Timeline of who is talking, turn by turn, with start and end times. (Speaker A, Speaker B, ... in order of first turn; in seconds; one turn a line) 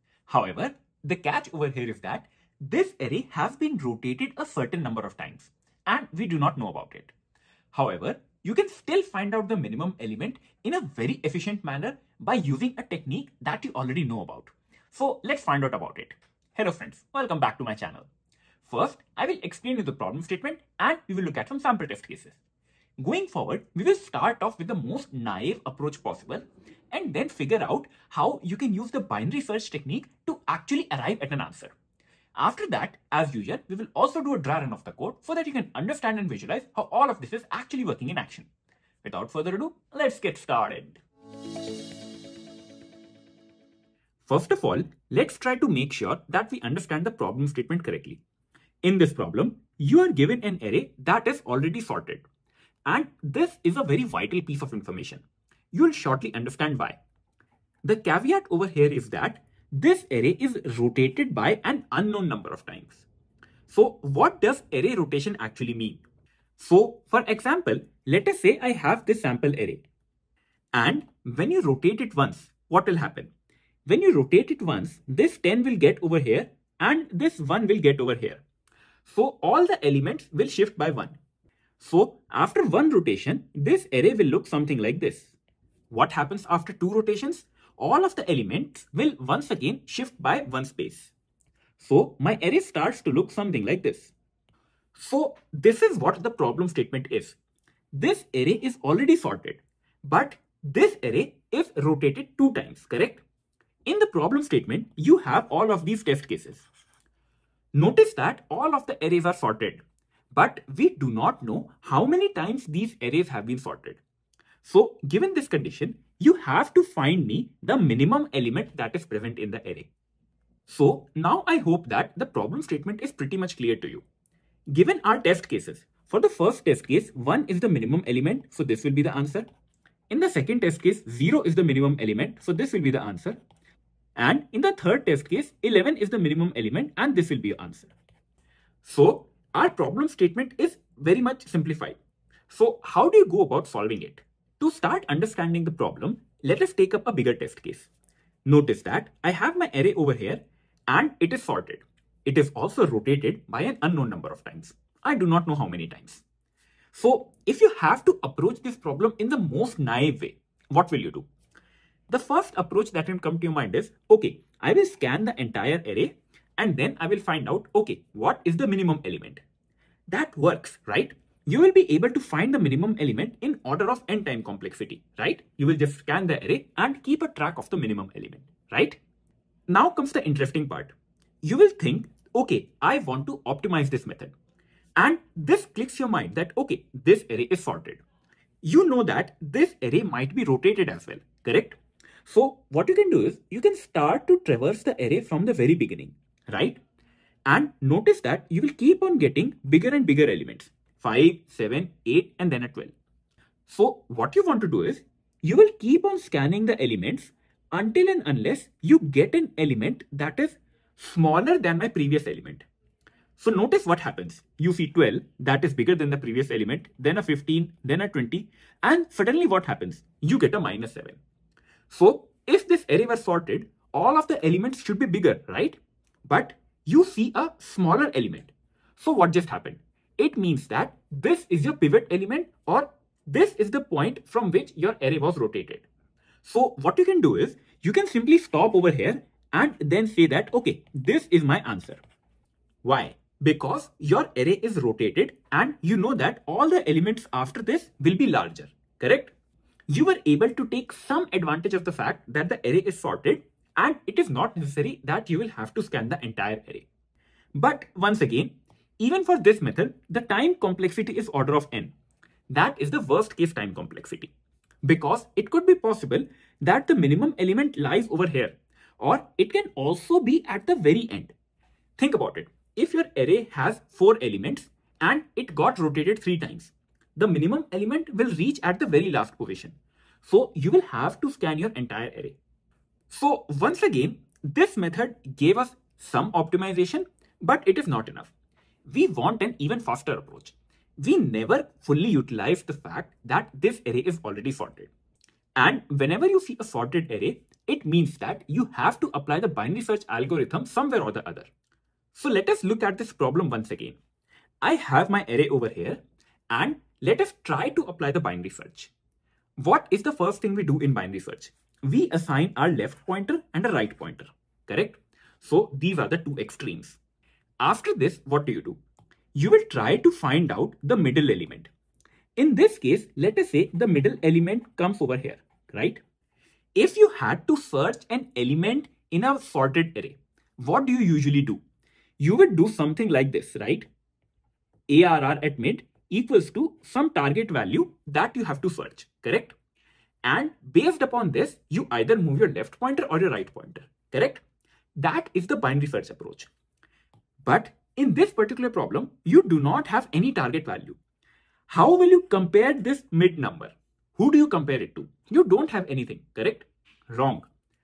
Speaker A: 0.3-7.1
Speaker A: 7.7-18.1
Speaker A: 18.6-22.4
Speaker A: 23.0-31.7
Speaker A: 32.4-38.5
Speaker A: 39.0-41.0
Speaker A: 44.2-48.2
Speaker A: 48.8-52.2
Speaker A: 52.9-57.0
Speaker A: 57.8-63.1
Speaker A: 63.7-66.0
Speaker A: 66.6-69.8
Speaker A: 70.7-73.3
Speaker A: 73.8-78.4
Speaker A: 79.0-81.2
Speaker A: 81.8-85.3
Speaker A: 85.9-91.1
Speaker A: 91.8-94.1
Speaker A: 95.0-97.4
Speaker A: 97.9-103.2
Speaker A: 103.8-106.7
Speaker A: 107.7-114.0
Speaker A: 114.6-119.9
Speaker A: 120.7-124.0
Speaker A: 124.7-129.4
Speaker A: 130.1-133.4
Speaker A: 134.2-137.9
Speaker A: 138.8-142.0
Speaker A: 142.5-147.9
Speaker A: 148.4-156.2
Speaker A: 156.9-161.3
Speaker A: 162.1-169.4
Speaker A: 170.1-179.0
Speaker A: 179.7-180.9
Speaker A: 181.4-184.3
Speaker A: 185.0-188.0
Speaker A: 188.6-196.8
Speaker A: 197.5-202.9
Speaker A: 203.7-212.7
Speaker A: 213.4-221.2
Speaker A: 221.9-235.8
Speaker A: 236.4-242.0
Speaker A: 242.8-249.3
Speaker A: 249.9-256.9
Speaker A: 257.5-261.9
Speaker A: 262.5-264.3
Speaker A: 264.8-271.3
Speaker A: 272.0-282.4
Speaker A: 283.1-288.3
Speaker A: 288.9-294.9
Speaker A: 295.6-301.5
Speaker A: 302.1-304.0
Speaker A: 304.6-308.9
Speaker A: 309.6-317.0
Speaker A: 317.6-318.8
Speaker A: 319.3-321.7
Speaker A: 322.4-326.0
Speaker A: 326.8-331.6
Speaker A: 332.2-333.9
Speaker A: 334.9-339.6
Speaker A: 340.2-344.4
Speaker A: 345.0-346.5
Speaker A: 347.4-351.0
Speaker A: 351.7-357.5